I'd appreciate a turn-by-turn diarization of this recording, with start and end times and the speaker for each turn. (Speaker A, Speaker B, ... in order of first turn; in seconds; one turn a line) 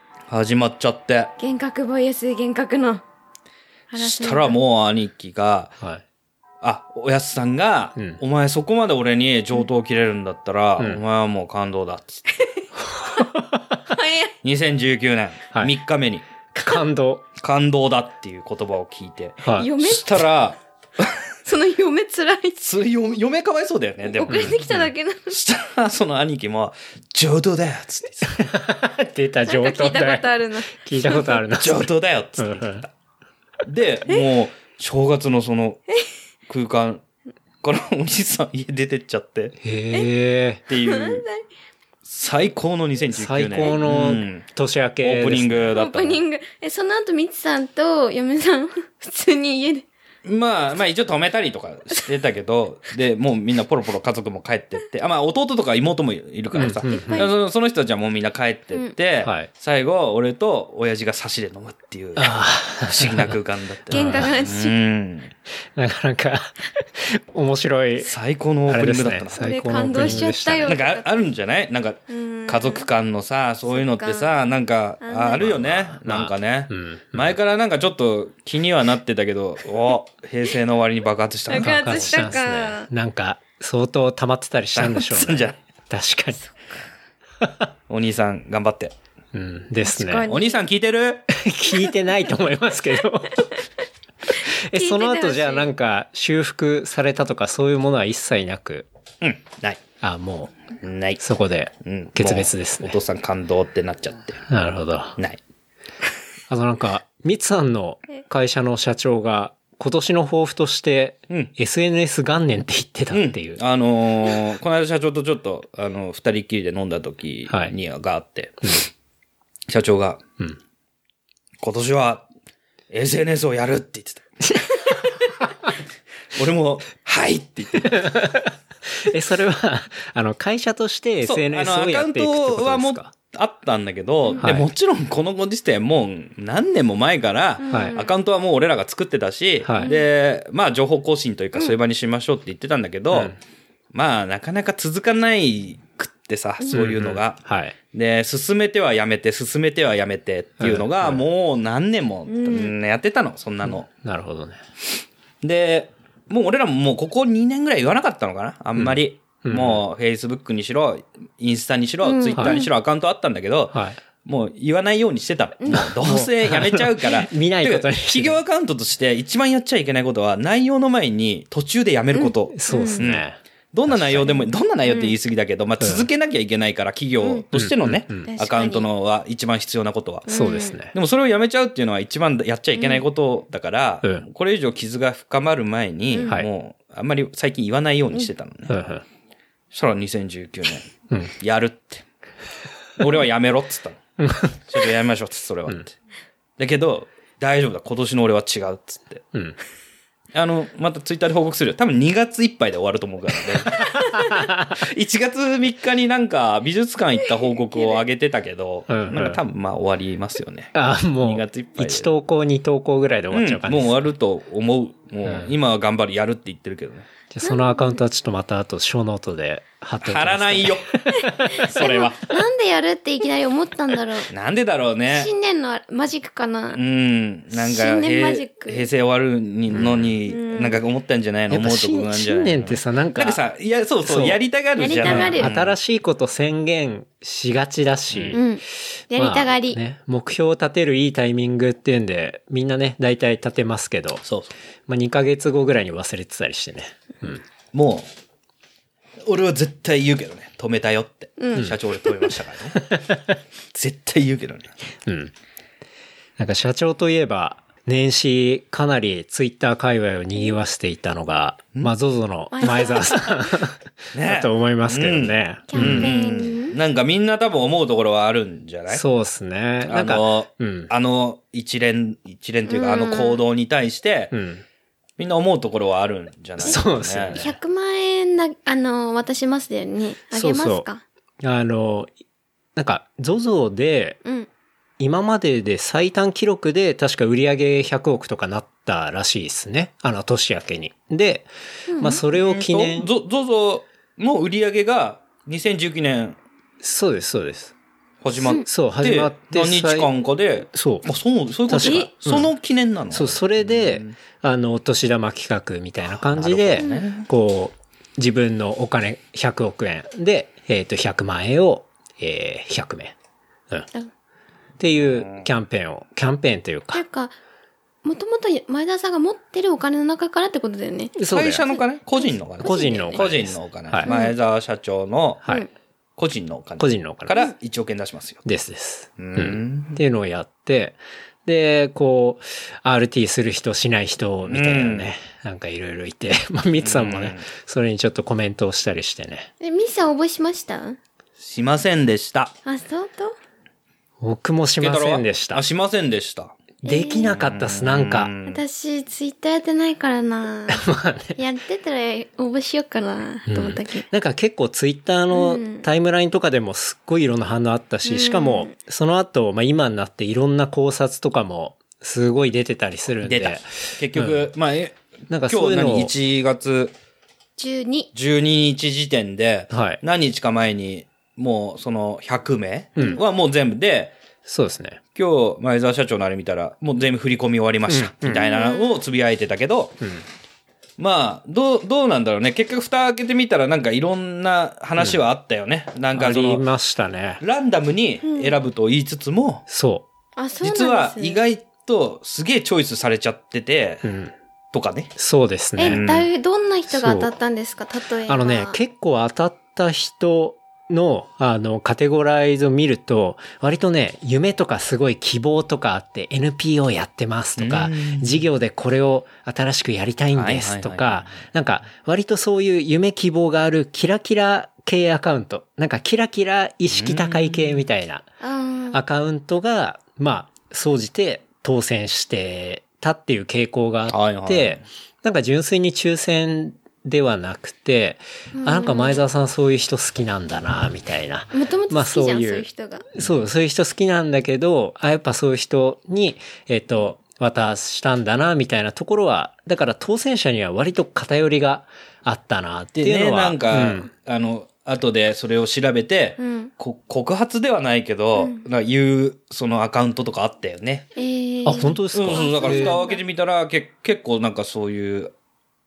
Speaker A: 0.3-1.3
Speaker B: 1.4-3.0
Speaker B: 3.9-4.6
Speaker A: 4.0-5.8
Speaker A: 6.6-12.2
Speaker B: 12.3-13.3
Speaker C: 12.8-13.8
Speaker B: 13.9-14.3
Speaker A: 14.4-16.2
Speaker C: 16.6-17.2
Speaker A: 17.4-21.2
Speaker C: 19.4-19.7
Speaker B: 19.5-20.3
Speaker B: 21.4-22.7
Speaker A: 22.6-28.4
Speaker B: 24.1-25.4
Speaker C: 24.3-24.9
Speaker C: 28.3-32.9
Speaker B: 29.5-31.4
Speaker A: 31.5-32.9
Speaker A: 33.7-35.8
Speaker A: 36.5-37.0
Speaker A: 37.6-39.6
Speaker C: 39.6-40.6
Speaker A: 40.7-41.2
Speaker B: 40.7-41.4
Speaker A: 42.0-44.5
Speaker C: 43.1-45.9
Speaker A: 45.0-46.2
Speaker B: 45.8-49.9
Speaker A: 50.2-65.3
Speaker C: 56.5-57.2
Speaker B: 56.9-57.3
Speaker C: 59.2-59.5
Speaker C: 62.2-63.4
Speaker B: 63.9-64.8
Speaker C: 63.9-64.3
Speaker C: 65.8-68.1
Speaker A: 68.0-82.3
Speaker C: 68.7-70.8
Speaker B: 69.4-71.2
Speaker B: 72.1-72.9
Speaker B: 73.7-74.3
Speaker B: 75.0-75.5
Speaker C: 75.4-77.4
Speaker B: 81.5-82.9
Speaker C: 81.5-86.4
Speaker A: 84.8-85.6
Speaker C: 87.4-87.7
Speaker A: 87.9-89.0
Speaker C: 89.3-90.2
Speaker B: 89.8-90.6
Speaker A: 90.3-91.3
Speaker C: 91.3-93.5
Speaker C: 94.4-98.9
Speaker B: 94.7-95.7
Speaker A: 99.2-99.8
Speaker C: 100.0-100.5
Speaker A: 100.8-101.2
Speaker C: 101.2-103.0
Speaker A: 101.8-104.4
Speaker C: 104.5-105.2
Speaker C: 106.5-113.6
Speaker A: 113.1-118.8
Speaker C: 117.5-117.7
Speaker A: 119.7-120.2
Speaker A: 121.6-122.3
Speaker A: 122.9-124.3
Speaker C: 124.6-125.2
Speaker A: 126.3-128.0
Speaker C: 127.8-133.1
Speaker A: 131.2-143.3
Speaker C: 134.4-134.7
Speaker B: 137.6-138.1
Speaker C: 137.7-138.0
Speaker C: 139.6-139.9
Speaker B: 139.8-140.1
Speaker C: 143.1-143.4
Speaker A: 143.9-153.9
Speaker C: 146.7-147.8
Speaker C: 150.6-151.2
Speaker B: 152.3-152.7
Speaker C: 153.7-154.6
Speaker A: 155.4-180.3
Speaker C: 158.8-159.8
Speaker B: 162.0-162.7
Speaker C: 163.7-164.0
Speaker B: 165.6-165.9
Speaker C: 165.7-168.4
Speaker B: 172.1-173.0
Speaker C: 172.5-174.4
Speaker B: 174.8-175.2
Speaker C: 175.8-176.1
Speaker C: 177.5-178.3
Speaker B: 178.3-178.9
Speaker B: 180.3-180.8
Speaker C: 180.3-180.9
Speaker A: 180.8-188.8
Speaker B: 182.8-183.0
Speaker B: 186.1-186.4
Speaker C: 188.7-189.0
Speaker A: 189.7-192.1
Speaker A: 193.0-194.0
Speaker C: 194.2-194.6
Speaker A: 194.7-195.9
Speaker A: 196.6-199.2
Speaker A: 200.3-204.0
Speaker C: 203.7-204.8
Speaker A: 204.8-212.1
Speaker C: 208.9-209.4
Speaker C: 210.7-214.1
Speaker A: 213.3-217.1
Speaker C: 215.2-215.5
Speaker C: 217.3-222.0
Speaker B: 217.4-218.0
Speaker A: 220.0-221.0
Speaker B: 221.2-224.3
Speaker A: 221.7-222.2
Speaker A: 224.3-225.3
Speaker B: 225.1-226.8
Speaker A: 226.7-235.8
Speaker B: 227.5-228.9
Speaker C: 229.7-230.2
Speaker B: 230.3-230.8
Speaker C: 231.5-233.4
Speaker C: 234.0-234.4
Speaker B: 234.8-235.5
Speaker C: 235.0-238.5
Speaker A: 238.1-238.4
Speaker B: 238.3-239.8
Speaker C: 239.0-244.2
Speaker A: 244.2-244.5
Speaker C: 244.9-247.4
Speaker A: 247.7-248.1
Speaker A: 249.2-252.8
Speaker B: 251.4-252.2
Speaker C: 252.8-253.4
Speaker A: 253.7-254.7
Speaker C: 255.1-255.3
Speaker C: 256.4-266.1
Speaker B: 262.5-263.5
Speaker A: 264.1-269.1
Speaker B: 265.7-266.8
Speaker C: 268.9-270.9
Speaker A: 269.8-274.3
Speaker B: 272.7-273.4
Speaker C: 274.3-274.6
Speaker A: 275.2-277.4
Speaker B: 276.6-281.0
Speaker C: 276.6-277.5
Speaker C: 280.3-280.9
Speaker C: 281.4-282.1
Speaker C: 282.8-284.2
Speaker C: 285.0-293.1
Speaker B: 291.9-292.2
Speaker A: 292.3-296.4
Speaker C: 296.8-297.7
Speaker A: 298.2-304.2
Speaker C: 298.6-300.1
Speaker C: 300.7-301.1
Speaker C: 301.7-302.5
Speaker B: 301.8-302.1
Speaker C: 303.1-313.1
Speaker A: 306.0-307.3
Speaker B: 306.8-307.1
Speaker C: 314.8-317.0
Speaker A: 314.9-315.5
Speaker B: 316.9-317.4
Speaker B: 318.0-323.3
Speaker C: 321.2-321.7
Speaker A: 321.3-325.4
Speaker C: 322.6-324.1
Speaker B: 324.0-324.4
Speaker A: 326.2-328.4
Speaker C: 326.8-327.4
Speaker C: 328.4-339.5
Speaker A: 329.2-330.0
Speaker A: 334.5-335.1
Speaker A: 336.8-337.5
Speaker B: 339.6-341.0
Speaker A: 341.4-342.5
Speaker B: 342.7-343.4
Speaker C: 344.2-345.6
Speaker A: 344.8-346.6
Speaker C: 346.8-348.3
Speaker B: 346.9-347.4
Speaker A: 347.2-348.6
Speaker B: 348.5-354.1
Speaker C: 350.7-351.4
Speaker C: 353.5-364.5
Speaker B: 355.3-355.9
Speaker B: 358.1-358.7
Speaker A: 363.2-366.9
Speaker C: 365.3-366.1
Speaker B: 367.6-368.1
Speaker A: 368.1-374.1
Speaker C: 369.7-370.0
Speaker B: 373.0-373.2
Speaker C: 374.5-375.0
Speaker A: 375.1-380.0
Speaker C: 377.9-378.4
Speaker B: 378.3-379.0
Speaker A: 381.0-386.6
Speaker C: 386.1-387.4
Speaker A: 387.4-389.6
Speaker B: 388.2-388.5
Speaker C: 389.7-390.1
Speaker B: 390.4-391.4
Speaker A: 390.6-394.1
Speaker C: 394.0-394.3
Speaker A: 394.7-395.1
Speaker C: 395.2-396.0
Speaker B: 395.8-398.8
Speaker A: 395.9-396.3
Speaker C: 396.9-397.3
Speaker C: 398.3-418.3
Speaker A: 407.6-408.4
Speaker A: 410.3-411.4
Speaker A: 416.9-417.9
Speaker B: 418.4-419.0
Speaker C: 418.9-444.1
Speaker A: 424.1-424.8
Speaker B: 428.6-429.2
Speaker B: 431.5-433.1
Speaker A: 443.0-451.1
Speaker B: 446.4-446.7
Speaker B: 448.4-448.6
Speaker B: 451.1-453.2
Speaker C: 451.6-453.0
Speaker A: 452.1-455.3